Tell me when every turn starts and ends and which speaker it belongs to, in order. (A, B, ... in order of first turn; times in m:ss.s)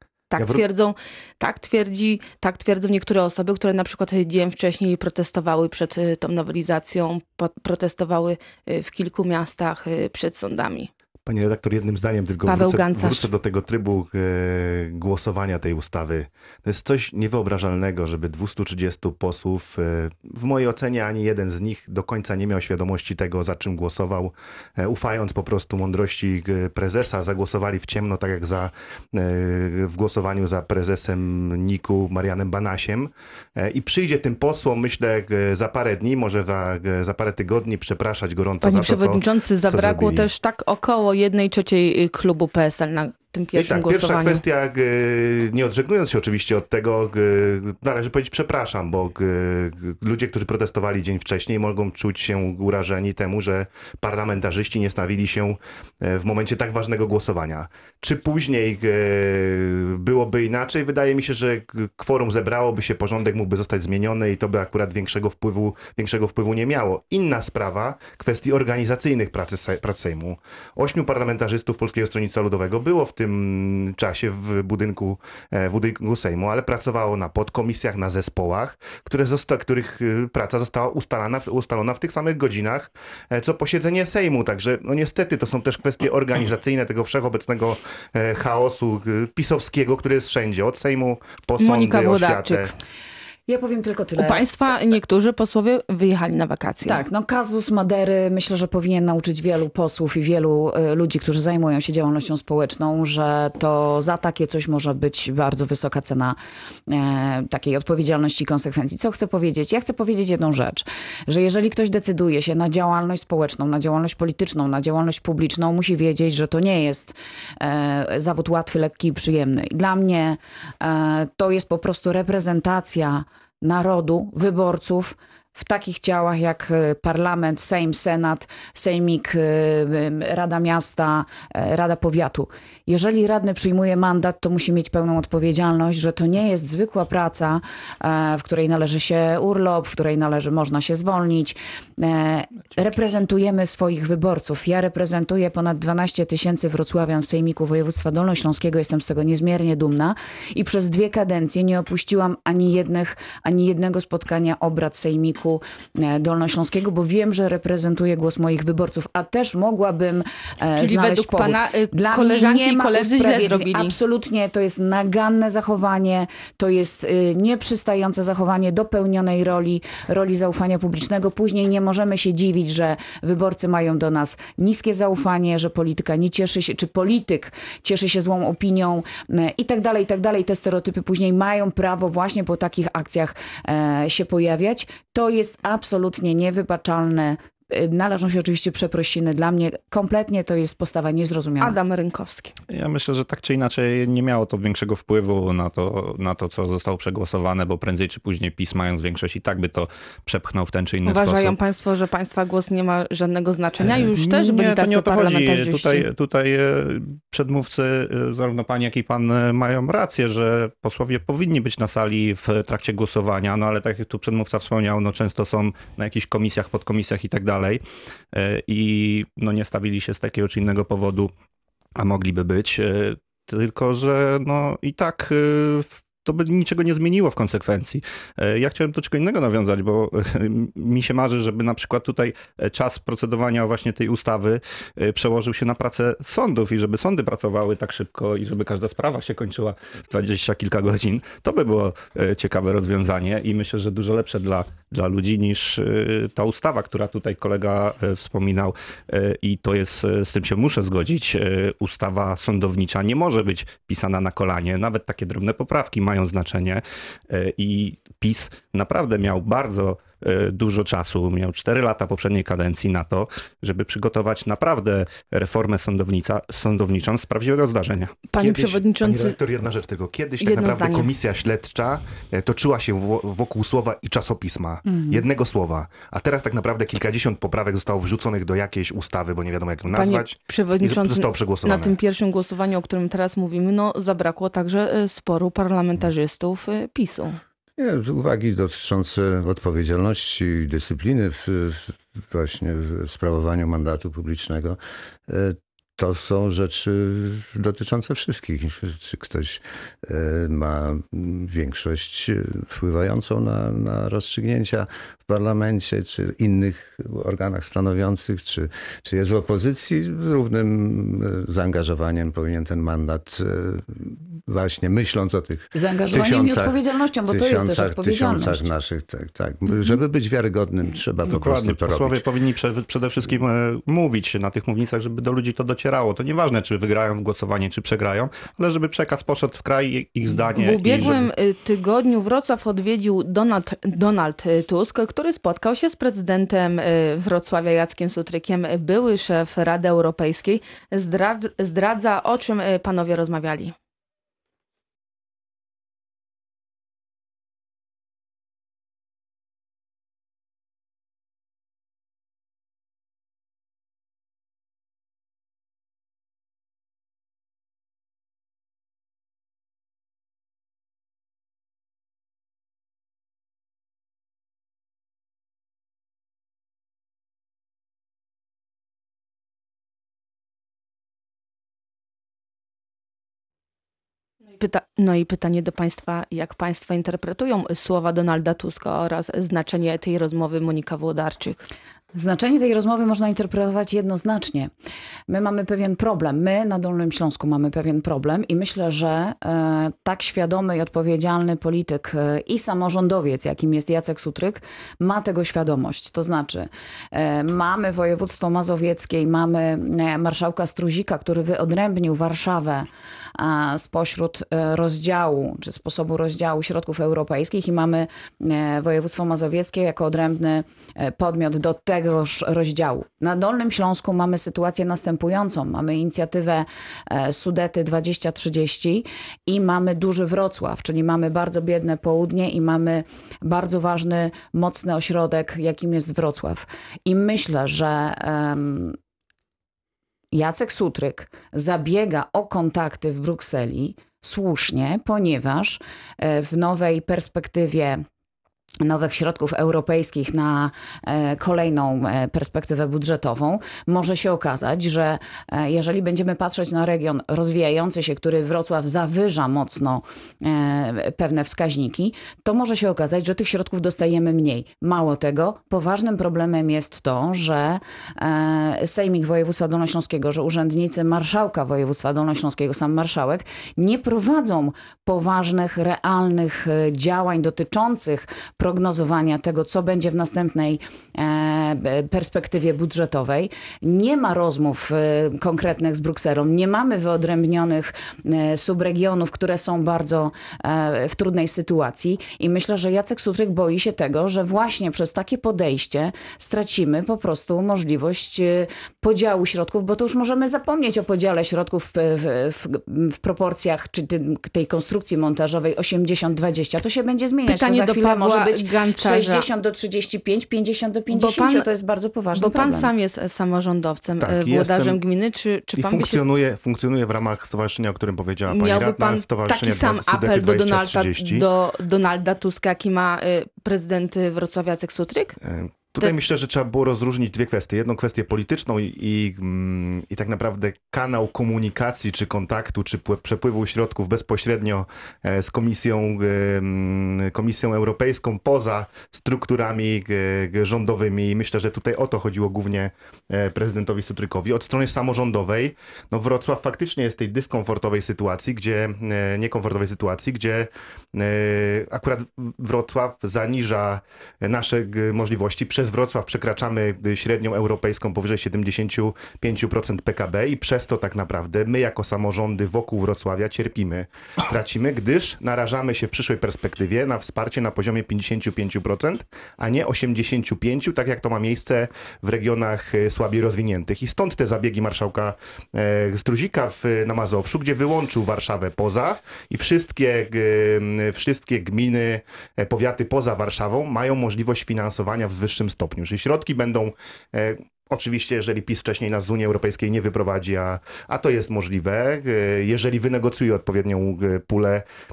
0:00.3-0:10.9 A
0:00.4-0:00.6 B
0:11.3-0:40.3 B
0:12.5-0:13.3 A
0:38.6-0:44.4 A
0:43.5-1:32.7 B
1:31.6-1:32.7 A
1:33.5-1:34.4 C
1:34.2-1:37.0 A
1:36.8-1:46.4 C
1:46.9-3:11.8 C
2:40.8-2:44.0 A
3:11.6-3:12.6 A
3:12.7-3:21.6 D
3:21.1-3:26.1 A
3:23.8-3:37.8 D
3:38.3-3:41.3 D
3:42.0-4:28.3 D
4:28.3-4:29.4 A
4:28.4-4:42.0 B
4:30.4-4:31.1 A
4:39.9-4:47.4 A
4:47.8-5:22.2 E
5:15.7-5:18.7 C
5:21.3-5:31.3 D
5:30.6-5:43.8 A
6:14.5-6:21.6 A
6:22.1-6:24.7 C
6:25.3-7:09.0 C
7:10.3-7:18.0 C
7:18.8-8:22.9 C
8:17.5-8:19.5 A
8:21.1-8:21.7 A
8:22.3-8:26.2 A
8:24.2-8:25.0 B
8:25.7-8:31.5 B
8:28.5-8:35.4 A
8:35.4-9:44.8 B